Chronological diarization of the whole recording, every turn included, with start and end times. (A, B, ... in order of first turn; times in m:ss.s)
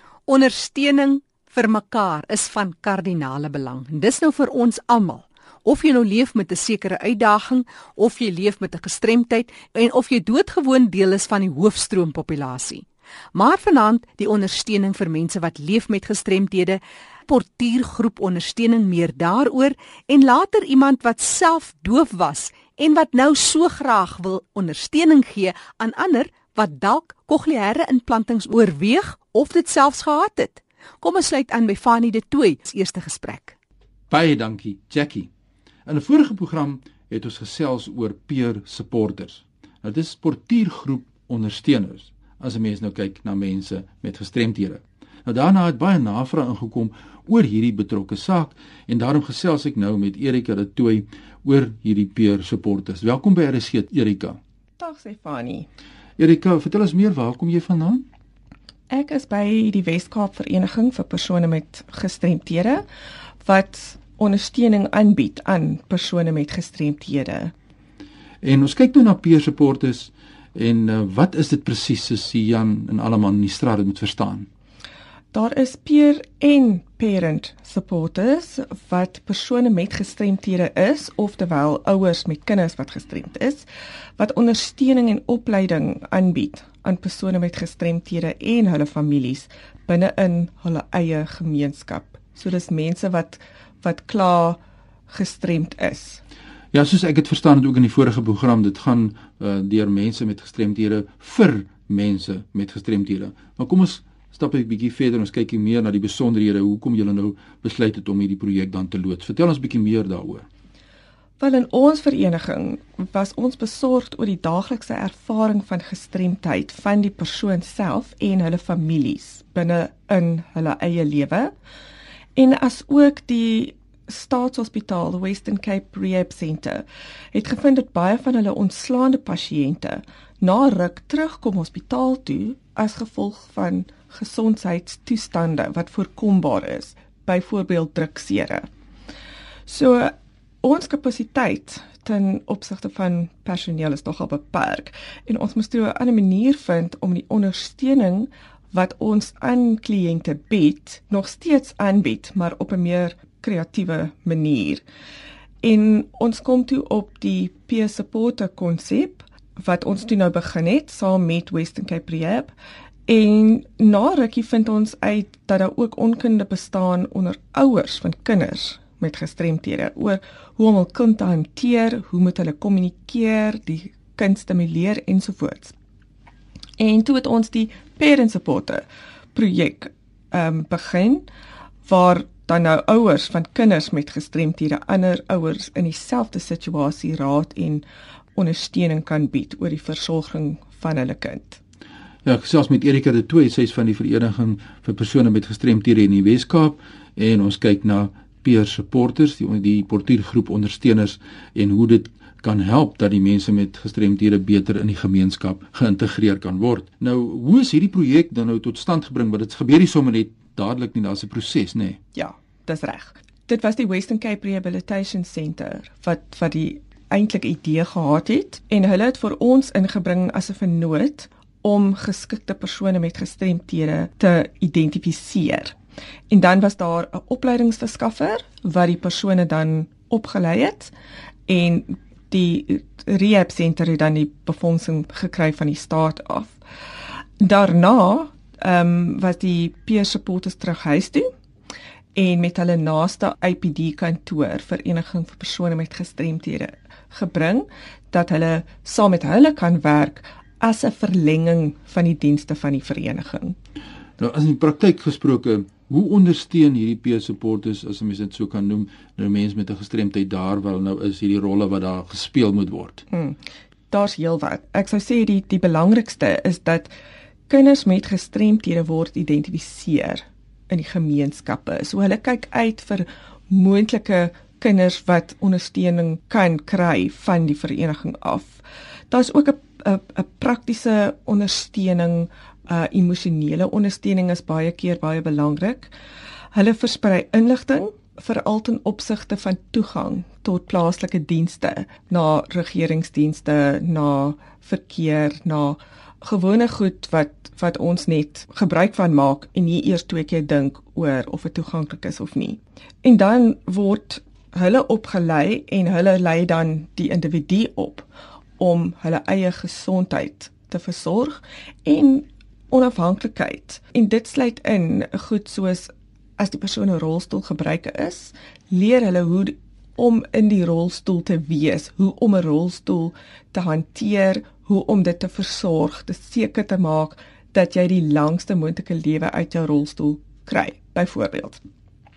0:00.3-0:33.6 A
0:34.1-0:35.3 B
0:35.9-0:54.4 B
0:54.8-0:55.7 C
0:56.2-0:58.1 B
0:58.9-1:02.8 C
1:03.4-1:07.5 C
1:08.4-1:14.5 B
1:15.3-1:23.7 C
1:24.2-1:36.2 C
1:36.7-1:50.4 B
1:51.4-2:01.5 C
2:02.4-2:18.7 C
2:19.7-2:34.8 C
2:35.6-2:42.5 C
2:43.1-2:55.8 C
2:56.8-3:01.3 C
3:01.8-3:07.8 C
3:08.4-3:11.6 C
3:12.2-3:32.0 B
3:32.2-3:45.8 C
3:46.3-3:50.9 C
3:51.5-3:56.6 C
3:57.4-4:01.3 C
4:02.2-4:13.6 C
4:14.2-4:23.0 B
4:23.1-4:23.4 C
4:23.9-4:26.9 C
4:27.5-4:45.9 C
4:46.5-5:08.1 C
5:08.6-5:31.6 C